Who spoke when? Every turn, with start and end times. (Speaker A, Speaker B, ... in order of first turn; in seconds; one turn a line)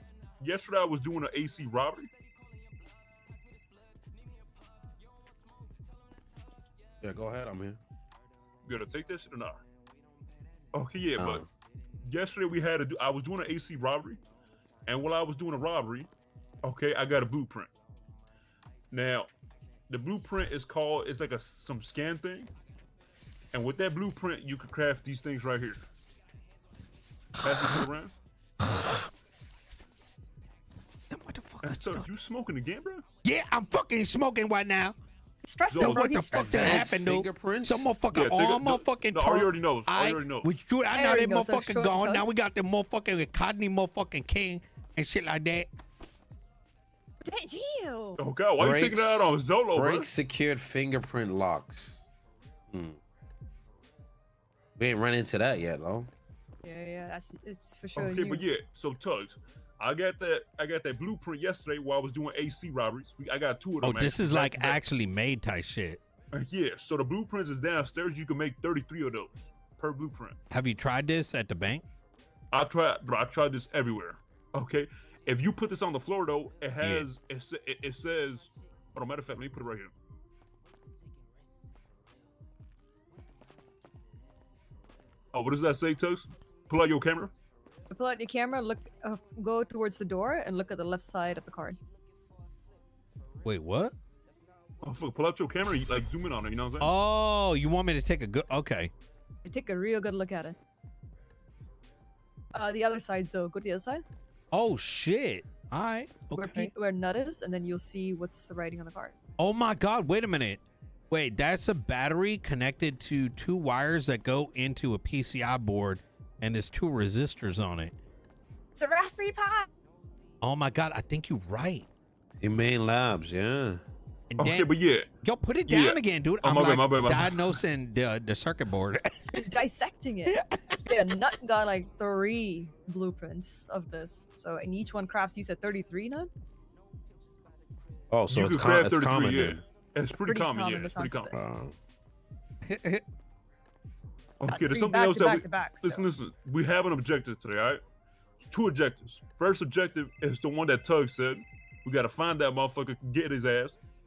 Speaker A: 0.4-2.1
Speaker B: 7.0-7.8
Speaker A: 8.7-9.6
Speaker A: 10.7-11.4
Speaker B: 11.2-11.4
Speaker A: 12.0-14.2
Speaker A: 14.9-16.1
Speaker A: 16.6-17.7
Speaker A: 18.9-19.3
Speaker A: 19.9-22.5
Speaker A: 23.5-25.8
Speaker A: 27.4-28.1
Speaker C: 28.6-29.0
Speaker C: 31.1-32.1
Speaker A: 31.6-33.0
Speaker C: 33.2-35.0
Speaker D: 35.4-36.9
Speaker A: 35.7-36.6
Speaker C: 35.8-45.7
Speaker B: 36.4-37.9
Speaker A: 38.1-40.5
Speaker D: 40.9-42.4
Speaker D: 47.2-48.2
Speaker A: 48.2-50.1
Speaker B: 48.6-52.0
Speaker B: 52.7-53.0
Speaker B: 54.8-56.1
Speaker D: 56.6-58.4
Speaker A: 58.0-64.8
Speaker C: 63.8-66.0
Speaker A: 66.3-70.4
Speaker C: 70.5-71.8
Speaker A: 72.5-79.9
Speaker A: 85.3-87.3
Speaker D: 87.9-91.8
Speaker C: 93.5-94.0
Speaker A: 94.8-96.9
Speaker C: 96.8-98.9
Speaker D: 99.5-100.6
Speaker D: 102.5-104.0
Speaker C: 104.5-106.7
Speaker D: 106.3-109.2
Speaker C: 109.4-117.9
Speaker D: 118.8-119.7
Speaker C: 120.4-121.9
Speaker B: 122.4-123.8
Speaker C: 124.3-124.7
Speaker A: 124.4-125.1
Speaker C: 125.2-129.3
Speaker A: 125.7-127.6
Speaker D: 129.3-136.3
Speaker C: 130.3-131.1
Speaker B: 138.1-139.6
Speaker A: 138.3-141.3
Speaker D: 140.2-141.3
Speaker B: 141.3-141.8
Speaker C: 142.7-143.0
Speaker A: 144.4-147.8
Speaker D: 144.5-146.1
Speaker A: 148.4-153.8